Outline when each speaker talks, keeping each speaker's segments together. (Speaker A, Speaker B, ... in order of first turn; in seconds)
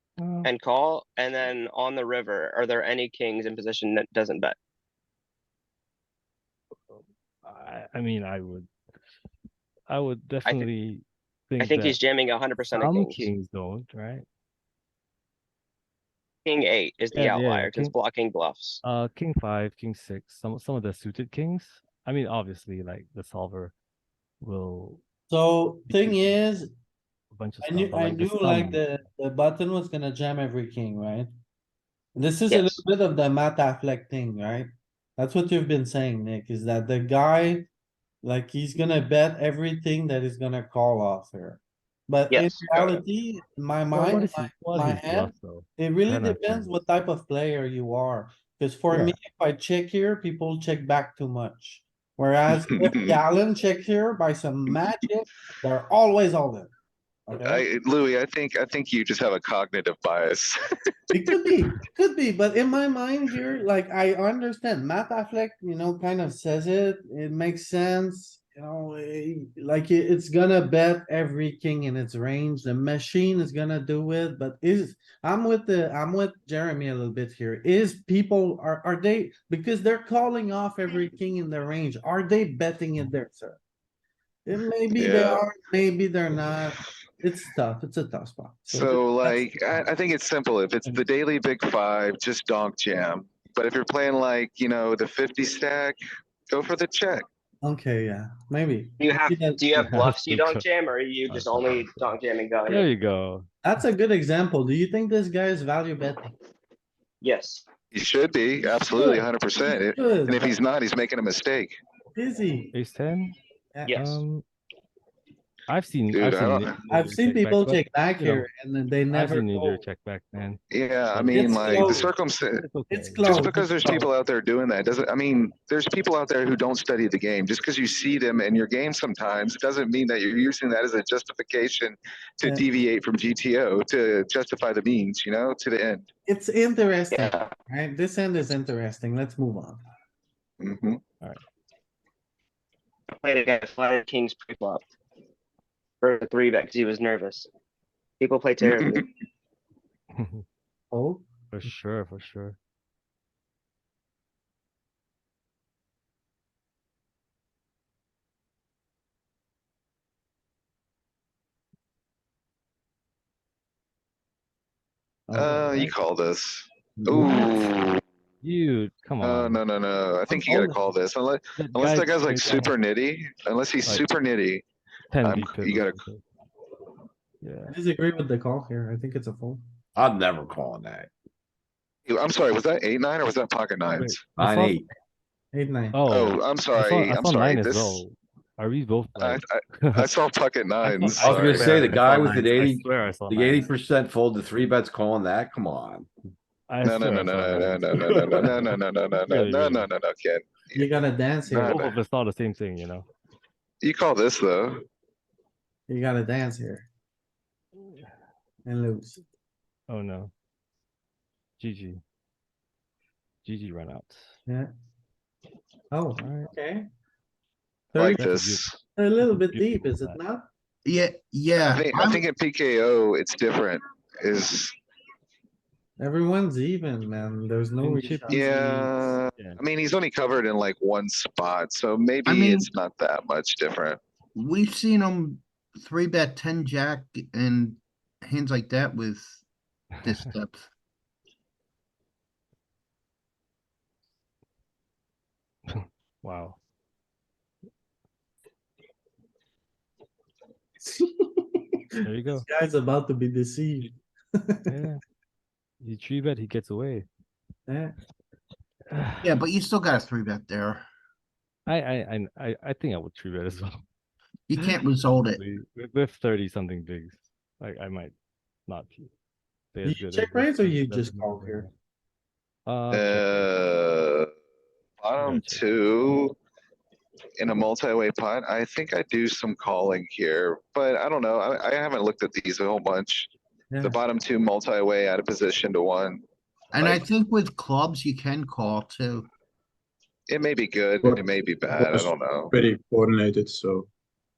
Speaker A: 0.2-0.5, 6.9-8.7, 9.9-12.0, 12.7-14.2, 17.1-17.9, 18.8-23.7, 24.4-25.0, 25.9-26.3, 27.3-28.9, 43.9-46.8, 99.8-100.6, 101.3-102.0, 102.7-103.5, 112.7-113.4, 113.9-114.4, 115.7-118.5, 119.1-120.6, 121.1-124.1, 150.2-150.4, 151.5-152.6, 165.5-165.9, 168.4-169.6, 171.6-172.7, 175.1-176.2, 177.4-177.7, 184.0-184.8, 185.9-190.1, 190.8-193.7, 196.7-199.9, 201.6-203.1, 209.9-210.3, 211.6-212.0, 213.4-214.3, 216.2-216.5, 218.1-220.2, 227.8-229.6, 245.7-246.6, 252.0-252.5, 254.7-255.0, 255.8-257.1, 258.9-259.3, 261.7-263.8, 265.2-268.1, 268.7-269.1, 269.7-271.7, 272.7-273.5, 275.2-275.7
Speaker B: 0.4-4.5, 11.6-13.3, 16.4-18.8, 32.5-32.8, 42.3-42.7, 99.0-102.8, 107.2-107.6, 113.8-114.2, 137.1-137.5, 143.2-144.8, 146.0-147.5, 148.2-149.0
Speaker C: 25.3-26.7, 27.6-31.3, 32.1-37.7, 38.2-56.7, 57.3-57.6, 61.1-83.6, 84.5-89.8, 97.6-99.7, 103.6-106.3, 108.7-110.6, 112.2-112.7, 113.7-114.0, 116.9-119.8, 121.3-122.1, 122.9-124.0, 132.4-132.7, 136.3-139.8, 150.9-151.2, 165.3-165.8, 167.0-167.7, 170.3-170.8, 177.7-179.6, 185.5-186.0, 191.7-192.2, 200.8-201.8, 205.9-206.9, 208.7-209.2, 215.9-216.8, 217.9-218.3, 219.0-220.5, 226.0-228.4, 250.8-251.8, 252.4-254.8, 257.7-257.9, 269.8-271.7, 283.7-284.0
Speaker D: 52.5-53.2, 57.4-60.6, 61.1-61.4, 84.9-85.5, 88.7-96.0, 96.5-97.2, 107.9-111.8, 116.1-116.8, 120.7-122.6, 123.2-136.1, 140.6-141.0, 148.6-149.0, 165.3-168.0, 169.2-174.6, 175.2-176.0, 182.1-184.2, 186.1-188.0, 189.2-191.7, 196.8-200.9, 201.5-202.0, 203.8-204.8, 217.9-218.8, 221.6-224.8, 228.3-234.0, 272.9-274.3, 275.0-276.4, 277.4-286.2, 290.3-292.5
Speaker E: 180.0-181.1, 184.5-184.8, 191.2-196.1
Speaker F: 191.8-192.3, 291.0-293.9
Speaker G: 220.8-222.2, 232.3-232.7, 234.3-239.4, 240.0-240.7, 259.2-260.9, 264.5-265.4, 286.7-289.3